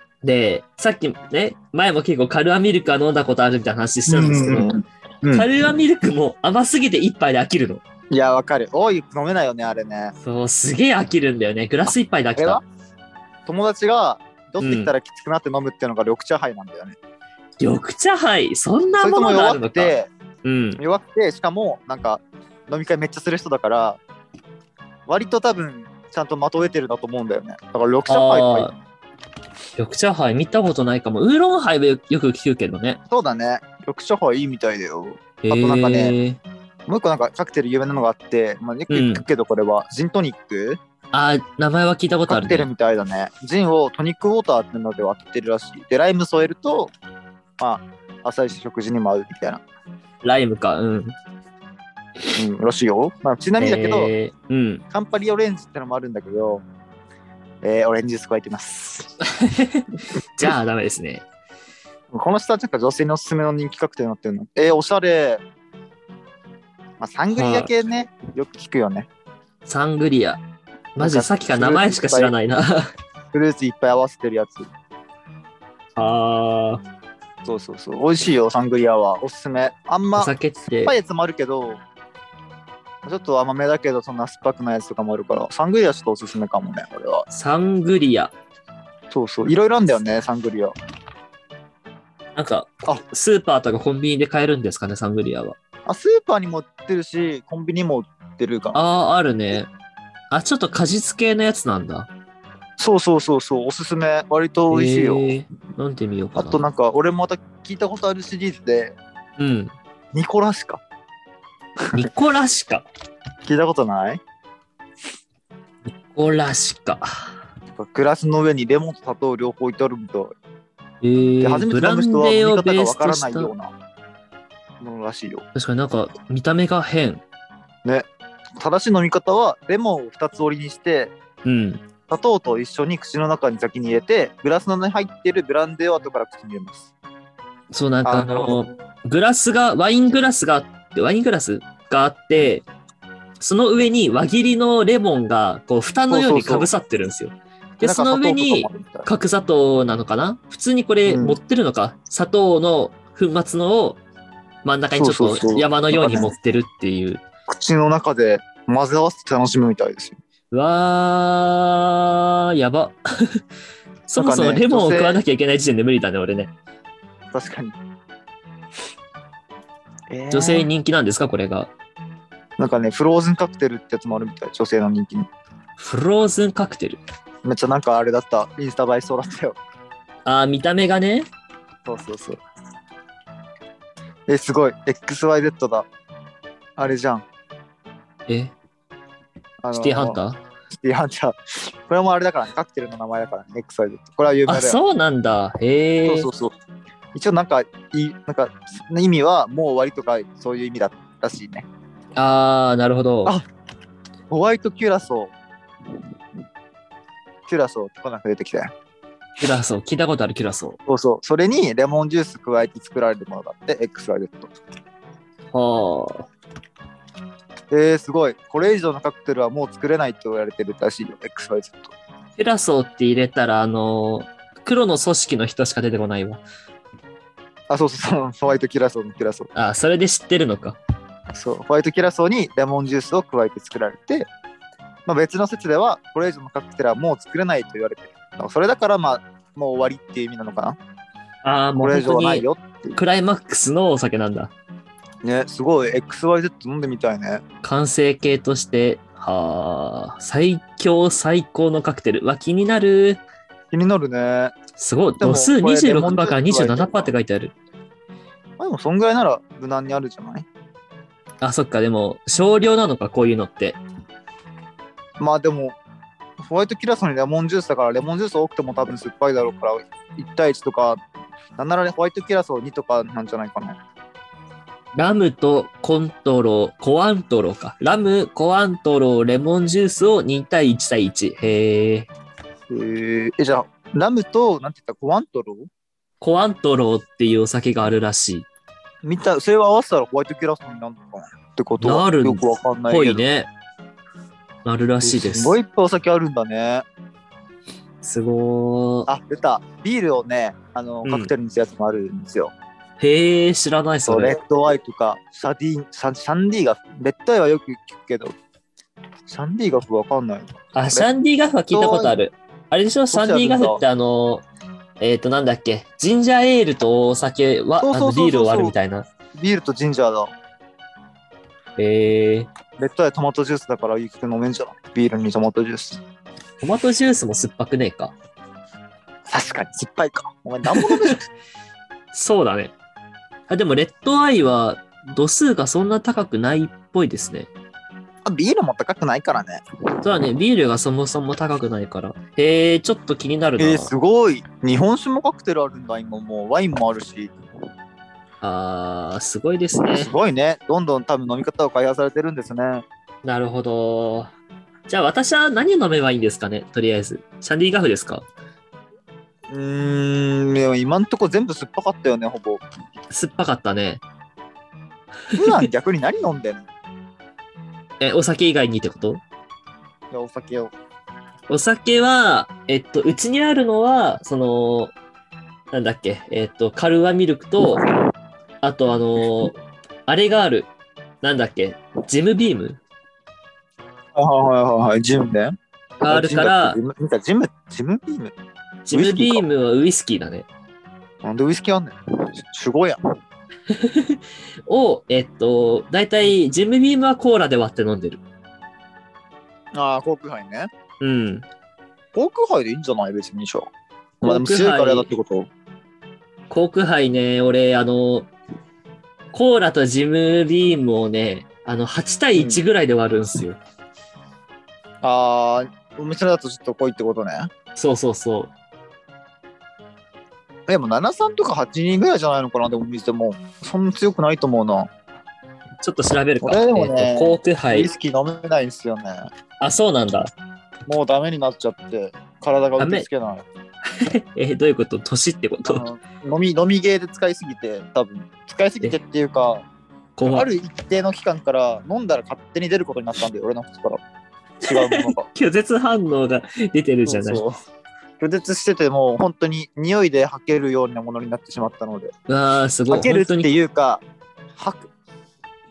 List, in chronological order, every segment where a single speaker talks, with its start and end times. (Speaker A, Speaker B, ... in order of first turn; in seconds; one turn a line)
Speaker A: 0.2-4.8
Speaker B: 4.1-5.5
Speaker A: 5.3-7.8
Speaker B: 8.1-10.2
Speaker A: 10.2-12.6
Speaker B: 12.4-12.6
Speaker B: 13.5-17.0
Speaker A: 14.6-14.9
Speaker A: 17.6-19.9
Speaker B: 19.0-20.1
Speaker A: 20.4-20.8
Speaker B: 20.8-24.0
Speaker B: 25.1-28.7
Speaker A: 28.1-28.8
Speaker A: 29.8-33.0
Speaker B: 33.1-36.2
Speaker A: 35.4-36.4
Speaker B: 36.9-40.8
Speaker A: 38.9-39.2
Speaker A: 41.1-42.7
Speaker B: 42.3-46.9
Speaker B: 47.6-49.6
Speaker A: 50.2-51.2
Speaker B: 52.4-54.1
Speaker A: 53.6-54.8
Speaker B: 54.9-56.7
Speaker B: 57.6-59.1
Speaker A: 59.3-61.2
Speaker B: 62.1-65.4
Speaker B: 67.0-69.1
Speaker A: 67.3-67.7
Speaker A: 69.7-70.4
Speaker A: 71.0-72.9
Speaker B: 71.0-72.3
Speaker B: 73.3-74.7
Speaker A: 76.0-76.8
Speaker B: 77.5-81.8
Speaker A: 80.2-80.9
Speaker B: 83.0-87.2
Speaker A: 87.3-88.3
Speaker B: 89.1-90.8
Speaker A: 92.4-95.6
Speaker B: 95.9-98.8
Speaker A: 98.7-99.7
Speaker A: 100.3-102.1
Speaker B: 102.8-105.3
Speaker A: 104.7-106.6
Speaker B: 106.4-109.0
Speaker A: 109.4-109.7
Speaker B: 110.1-110.8
Speaker B: 111.8-112.1
Speaker A: 111.9-112.9
Speaker B: 113.5-114.2
Speaker A: 116.1-117.3
Speaker B: 117.8-120.3
Speaker A: 121.0-123.5
Speaker B: 121.4-123.7
Speaker B: 124.8-125.5
Speaker A: 125.5-127.2
Speaker B: 128.6-131.1
Speaker A: 131.4-131.8
Speaker B: 132.1-136.9
Speaker A: 137.7-142.7
Speaker B: 138.1-138.6
Speaker A: 143.4-154.0
Speaker B: 146.1-146.7
Speaker B: 147.8-149.1
Speaker B: 151.1-151.4
Speaker A: 154.6-157.2
Speaker B: 154.9-156.3
Speaker B: 157.5-160.2
Speaker A: 160.5-163.4
Speaker A: 164.1-166.5
Speaker B: 164.2-165.2
Speaker B: 167.3-167.8
Speaker B: 170.1-170.7
Speaker A: 170.3-171.7
Speaker B: 172.6-175.3
Speaker A: 175.8-177.0
Speaker B: 177.4-179.6
Speaker A: 180.3-181.3
Speaker B: 181.9-182.4
Speaker B: 184.3-185.9
Speaker B: 186.8-187.2
Speaker A: 188.3-188.6
Speaker B: 189.6-190.2
Speaker A: 189.7-190.4
Speaker B: 190.7-194.8
Speaker A: 194.5-196.3
Speaker B: 196.1-196.5
Speaker B: 197.2-201.7
Speaker A: 202.2-203.3
Speaker B: 204.3-205.3
Speaker B: 207.5-208.7
Speaker A: 209.4-210.8
Speaker B: 210.9-214.5
Speaker A: 215.5-216.3
Speaker B: 217.7-221.9
Speaker A: 222.4-226.4
Speaker B: 227.7-229.5
Speaker A: 229.6-230.8
Speaker B: 231.3-234.3
Speaker B: 235.1-240.8
Speaker A: 241.4-244.5
Speaker B: 241.8-243.0
Speaker B: 245.2-247.4
Speaker A: 247.6-253.2
Speaker B: 253.7-254.5
Speaker A: 254.8-257.5
Speaker B: 255.2-257.1
Speaker B: 258.6-260.5
Speaker A: 261.4-263.8
Speaker B: 265.2-265.8
Speaker B: 266.4-271.0
Speaker B: 271.6-273.8
Speaker A: 275.0-282.1
Speaker B: 282.7-285.7
Speaker A: 286.2-288.5
Speaker B: 289.0-293.2
Speaker A: 291.8-293.5
Speaker A: 294.6-295.6
Speaker B: 295.0-296.8
Speaker A: 298.0-299.1
Speaker B: 299.1-302.5
Speaker A: 301.0-301.3
Speaker A: 303.0-304.3
Speaker B: 304.1-308.3
Speaker B: 309.3-311.1
Speaker A: 310.7-314.4
Speaker B: 311.7-312.2
Speaker B: 313.1-313.8
Speaker A: 315.0-319.1
Speaker B: 317.8-318.8
Speaker B: 319.4-320.3
Speaker A: 321.8-322.5
Speaker B: 322.8-326.0
Speaker A: 326.6-328.1
Speaker B: 329.3-331.3
Speaker A: 330.7-331.1
Speaker A: 332.1-332.7
Speaker A: 333.5-337.5
Speaker B: 338.2-340.1
Speaker A: 340.0-343.9
Speaker B: 343.6-347.3
Speaker A: 348.4-350.1
Speaker B: 349.9-352.9
Speaker A: 353.2-354.3
Speaker A: 354.9-358.3
Speaker B: 359.5-362.6
Speaker A: 363.1-364.0
Speaker B: 365.4-366.7
Speaker A: 368.0-369.2
Speaker B: 370.1-370.7
Speaker A: 371.5-374.9
Speaker A: 375.7-377.8
Speaker A: 378.6-379.6
Speaker A: 380.1-380.7
Speaker A: 381.2-382.8
Speaker B: 384.1-385.5
Speaker A: 386.0-386.8
Speaker B: 386.1-388.3
Speaker A: 388.9-390.5
Speaker B: 388.9-389.4
Speaker B: 391.2-393.0
Speaker A: 393.7-398.2
Speaker B: 399.7-400.7
Speaker A: 401.0-401.5
Speaker B: 402.1-403.7
Speaker A: 404.2-405.1
Speaker B: 404.2-405.5
Speaker A: 406.5-408.3
Speaker A: 409.3-413.6
Speaker B: 412.4-412.6
Speaker B: 415.0-417.5
Speaker A: 417.8-418.5
Speaker B: 420.7-424.9
Speaker A: 425.8-427.9
Speaker B: 426.4-429.2
Speaker A: 429.6-430.3
Speaker B: 430.9-433.5
Speaker A: 432.8-433.1
Speaker A: 434.0-435.8
Speaker B: 435.6-439.6
Speaker A: 440.2-440.5
Speaker B: 440.2-444.0
Speaker B: 444.6-445.3
Speaker A: 444.7-447.4
Speaker B: 447.1-447.5
Speaker B: 448.2-452.1
Speaker A: 452.3-453.5
Speaker B: 452.9-454.0
Speaker B: 454.6-454.9